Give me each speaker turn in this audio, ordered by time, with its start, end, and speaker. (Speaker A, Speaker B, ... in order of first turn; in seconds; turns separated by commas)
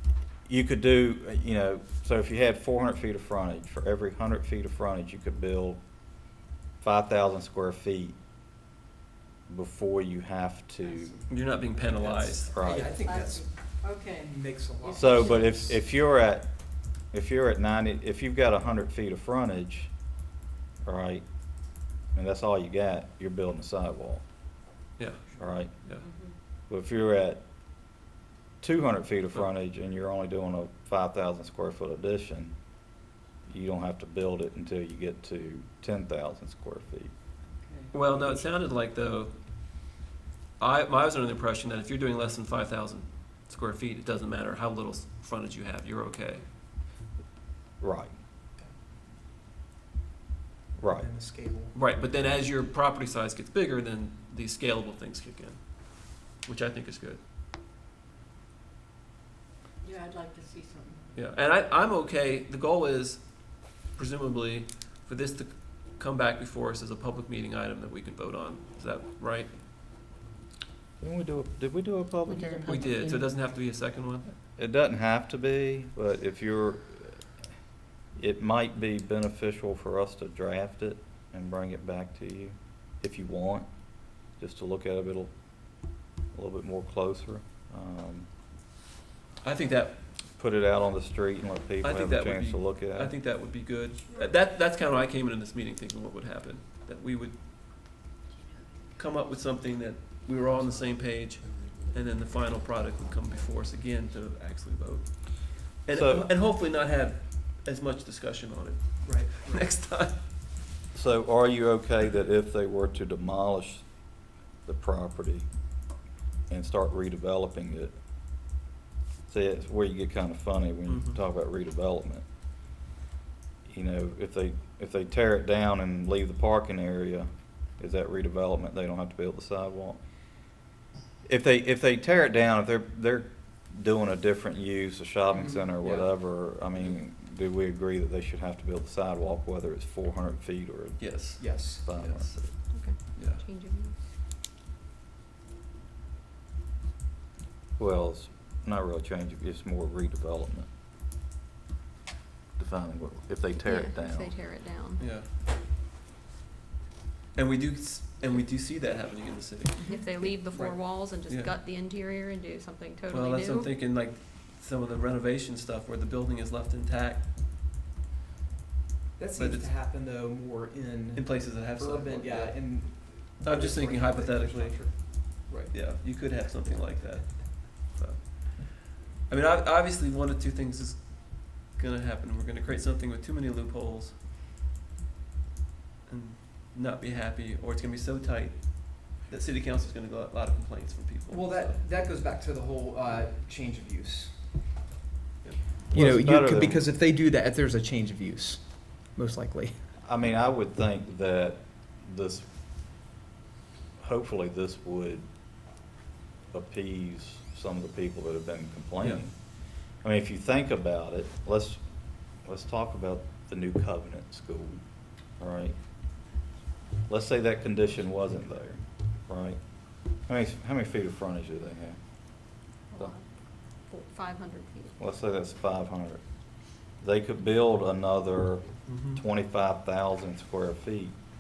Speaker A: 0.5-5.8, Speaker A: 6.8-8.2, Speaker A: 9.5-11.2, Speaker B: 11.3-12.5, Speaker C: 11.9-15.7, Speaker A: 12.4-13.0, Speaker D: 12.6-15.7, Speaker A: 15.0-20.1, Speaker A: 20.9-24.3, Speaker B: 25.0-25.2, Speaker A: 25.4-25.9, Speaker B: 25.8-26.0, Speaker D: 26.0-26.3, Speaker A: 26.5-27.4, Speaker A: 28.6-32.5, Speaker A: 33.5-37.1, Speaker C: 37.5-37.9, Speaker B: 37.9-39.4, Speaker B: 40.6-46.4, Speaker A: 47.8-48.1, Speaker A: 50.8-51.1, Speaker C: 51.0-51.7, Speaker B: 51.7-57.2, Speaker D: 59.8-61.2, Speaker B: 61.1-69.6, Speaker A: 71.0-72.9, Speaker B: 72.7-74.3, Speaker A: 74.6-77.2, Speaker A: 78.2-88.3, Speaker B: 89.4-90.0, Speaker A: 90.4-93.2, Speaker B: 91.8-97.4, Speaker B: 99.0-110.3, Speaker A: 105.9-106.3, Speaker C: 109.0-109.7, Speaker A: 110.9-115.7, Speaker A: 116.5-118.0, Speaker A: 119.3-122.3, Speaker B: 120.9-121.2, Speaker A: 123.7-130.0, Speaker A: 131.2-142.5, Speaker C: 135.3-136.1, Speaker B: 141.0-143.4, Speaker C: 141.4-141.8, Speaker E: 142.7-144.0, Speaker A: 147.8-150.7, Speaker A: 152.6-154.4, Speaker E: 153.6-155.0, Speaker B: 155.0-155.3, Speaker B: 157.3-160.3, Speaker E: 159.8-163.7, Speaker C: 160.5-160.8, Speaker B: 161.3-161.5, Speaker B: 163.1-167.2, Speaker C: 169.2-175.8, Speaker B: 169.4-169.7, Speaker B: 171.2-184.2, Speaker B: 186.1-191.8, Speaker C: 191.3-194.3, Speaker A: 195.9-196.9, Speaker C: 195.9-199.8, Speaker A: 200.0-202.5, Speaker A: 204.0-205.2, Speaker A: 206.5-215.8, Speaker A: 217.1-223.1, Speaker E: 222.9-225.0, Speaker A: 225.0-231.2, Speaker B: 228.9-229.2